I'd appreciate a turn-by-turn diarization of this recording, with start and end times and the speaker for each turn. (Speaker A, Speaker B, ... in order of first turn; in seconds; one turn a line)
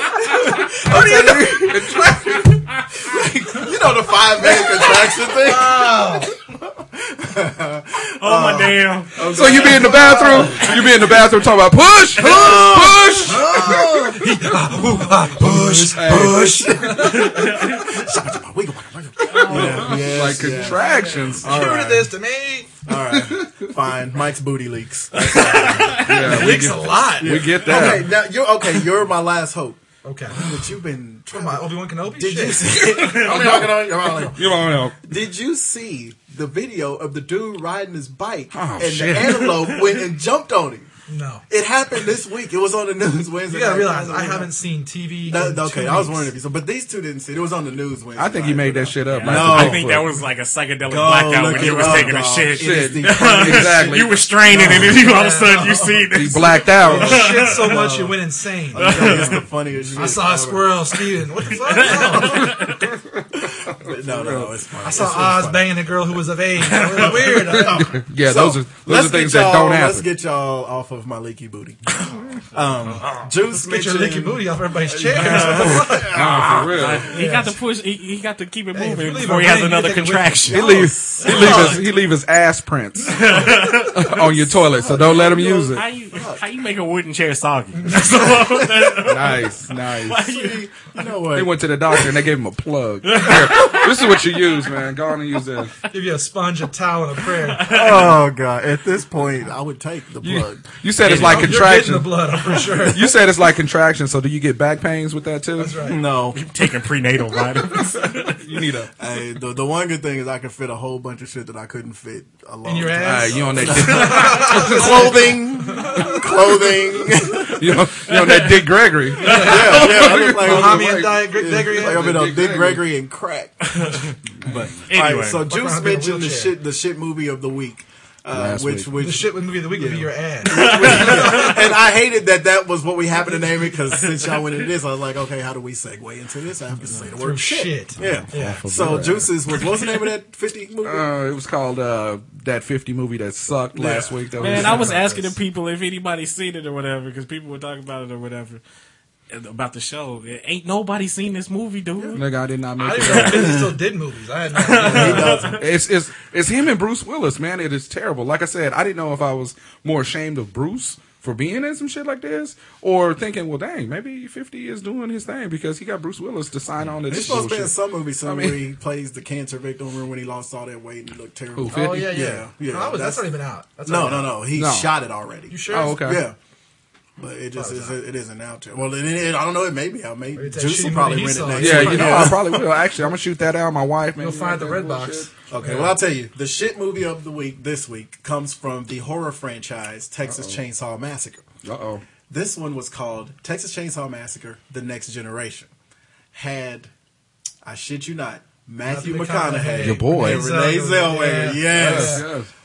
Speaker A: 0.2-11.2
Speaker B: 0.3-2.6
Speaker C: 4.5-6.3
Speaker D: 8.2-11.0
Speaker B: 9.3-14.2
Speaker A: 12.1-20.9
Speaker C: 13.3-18.3
Speaker B: 15.4-16.6
Speaker D: 17.1-17.9
Speaker D: 19.3-20.2
Speaker B: 19.4-21.6
Speaker C: 19.4-22.7
Speaker A: 21.4-22.1
Speaker A: 22.9-26.1
Speaker B: 23.1-23.7
Speaker D: 25.1-26.4
Speaker B: 25.8-28.1
Speaker C: 25.9-27.6
Speaker A: 27.2-29.8
Speaker C: 30.0-30.4
Speaker A: 30.3-40.9
Speaker C: 31.3-32.7
Speaker B: 32.7-35.0
Speaker D: 33.0-33.4
Speaker B: 38.5-39.5
Speaker D: 39.2-39.5
Speaker C: 41.1-41.5
Speaker A: 41.5-44.5
Speaker C: 43.5-46.3
Speaker A: 45.3-49.9
Speaker B: 48.2-50.1
Speaker D: 49.1-57.8
Speaker A: 50.9-55.0
Speaker B: 51.6-54.9
Speaker C: 54.5-55.9
Speaker B: 56.1-57.3
Speaker C: 56.8-59.4
Speaker A: 57.0-58.2
Speaker A: 58.7-60.8
Speaker D: 58.8-59.5
Speaker C: 59.9-62.6
Speaker D: 61.5-62.9
Speaker B: 62.5-65.1
Speaker A: 63.3-65.7
Speaker C: 64.8-67.9
Speaker D: 66.6-67.5
Speaker A: 67.0-71.9
Speaker B: 67.4-70.1
Speaker D: 71.9-72.4
Speaker A: 72.5-77.0
Speaker C: 73.5-76.4
Speaker B: 75.5-77.1
Speaker D: 75.8-80.8
Speaker C: 77.1-77.6
Speaker C: 78.7-80.5
Speaker A: 80.5-81.8
Speaker B: 80.5-85.8
Speaker C: 81.2-81.8
Speaker D: 81.3-81.6
Speaker D: 83.1-84.2
Speaker A: 84.0-86.4
Speaker D: 85.2-90.7
Speaker A: 88.1-89.1
Speaker B: 89.0-90.3
Speaker A: 90.2-91.5
Speaker B: 91.3-95.7
Speaker D: 93.0-94.6
Speaker C: 95.9-98.0
Speaker D: 97.3-98.2
Speaker A: 97.6-100.6
Speaker B: 100.2-105.9
Speaker D: 101.0-101.5
Speaker C: 101.0-103.2
Speaker C: 105.6-106.0
Speaker A: 105.8-106.4
Speaker D: 106.3-108.4
Speaker B: 107.6-108.9
Speaker A: 109.0-117.7
Speaker C: 112.7-116.3
Speaker B: 113.0-115.4
Speaker B: 115.9-122.8
Speaker D: 118.1-120.0
Speaker C: 119.2-122.2
Speaker A: 119.2-141.1
Speaker D: 123.7-124.1
Speaker B: 124.4-124.7
Speaker D: 124.9-125.5
Speaker C: 125.5-126.5
Speaker B: 128.3-129.0
Speaker C: 129.0-131.7
Speaker D: 130.5-131.7
Speaker D: 133.9-134.7
Speaker C: 137.2-138.9
Speaker B: 138.0-139.3
Speaker B: 140.8-144.9
Speaker C: 143.8-145.3
Speaker D: 144.4-148.6
Speaker D: 149.3-152.2
Speaker B: 152.2-153.6
Speaker C: 152.8-155.5
Speaker D: 153.1-153.5
Speaker A: 153.3-153.7
Speaker D: 154.6-155.6
Speaker A: 154.8-155.6
Speaker B: 155.6-168.6
Speaker A: 167.1-173.3
Speaker B: 171.6-172.2
Speaker C: 171.7-174.4
Speaker A: 173.9-176.4
Speaker B: 174.5-174.9
Speaker C: 175.5-176.1
Speaker B: 175.7-176.2
Speaker A: 177.2-182.7
Speaker C: 177.6-178.0
Speaker C: 180.3-182.4
Speaker B: 181.6-185.3
Speaker C: 184.2-186.0
Speaker A: 185.5-191.4
Speaker B: 190.3-190.6
Speaker B: 191.6-192.0
Speaker A: 192.3-195.7
Speaker A: 196.3-196.9
Speaker A: 197.6-202.3
Speaker C: 198.9-202.3
Speaker B: 199.8-200.5
Speaker B: 201.7-202.5